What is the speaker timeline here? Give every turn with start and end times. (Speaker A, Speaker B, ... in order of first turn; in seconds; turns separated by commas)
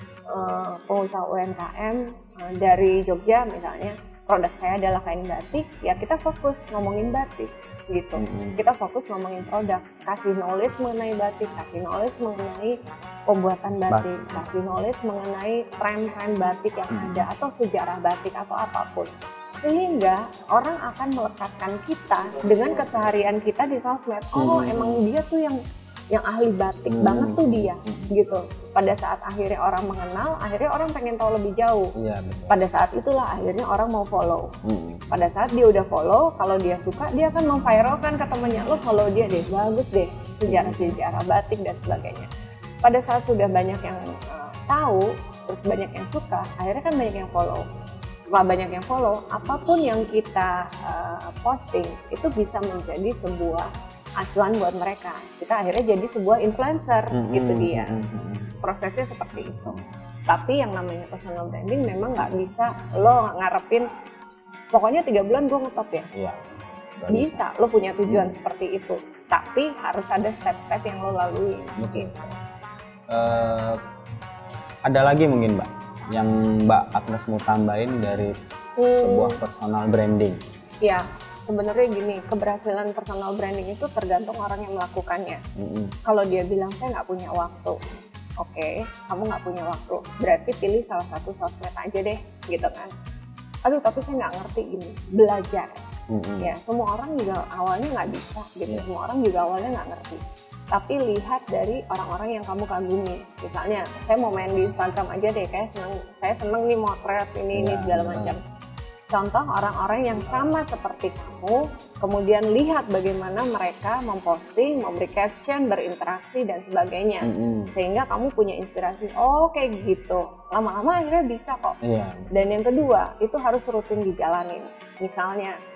Speaker A: 0.3-25.6, Speaker B: 8.2-8.6, Speaker B: 13.9-14.5, Speaker B: 16.9-17.3, Speaker B: 24.3-25.0, Speaker A: 26.1-31.9, Speaker B: 26.9-28.1, Speaker B: 32.0-32.6, Speaker A: 32.5-34.5, Speaker B: 34.6-35.0, Speaker A: 35.1-42.3, Speaker B: 40.5-41.0, Speaker A: 42.8-47.6, Speaker A: 48.3-57.9, Speaker B: 57.1-58.5, Speaker A: 58.6-63.9, Speaker A: 64.7-66.1, Speaker B: 67.0-67.4, Speaker A: 67.1-72.1, Speaker B: 68.1-68.3, Speaker B: 71.8-72.3, Speaker B: 73.1-73.8, Speaker B: 74.8-78.3, Speaker A: 78.8-79.4, Speaker B: 78.9-80.4, Speaker A: 80.8-85.4, Speaker B: 85.5-85.9, Speaker A: 86.0-87.8, Speaker A: 88.4-92.9, Speaker A: 93.6-95.8, Speaker B: 96.1-96.5, Speaker A: 96.4-108.4, Speaker B: 107.5-108.4, Speaker A: 109.1-121.8, Speaker B: 117.2-117.7, Speaker B: 121.8-122.3, Speaker A: 122.3-125.5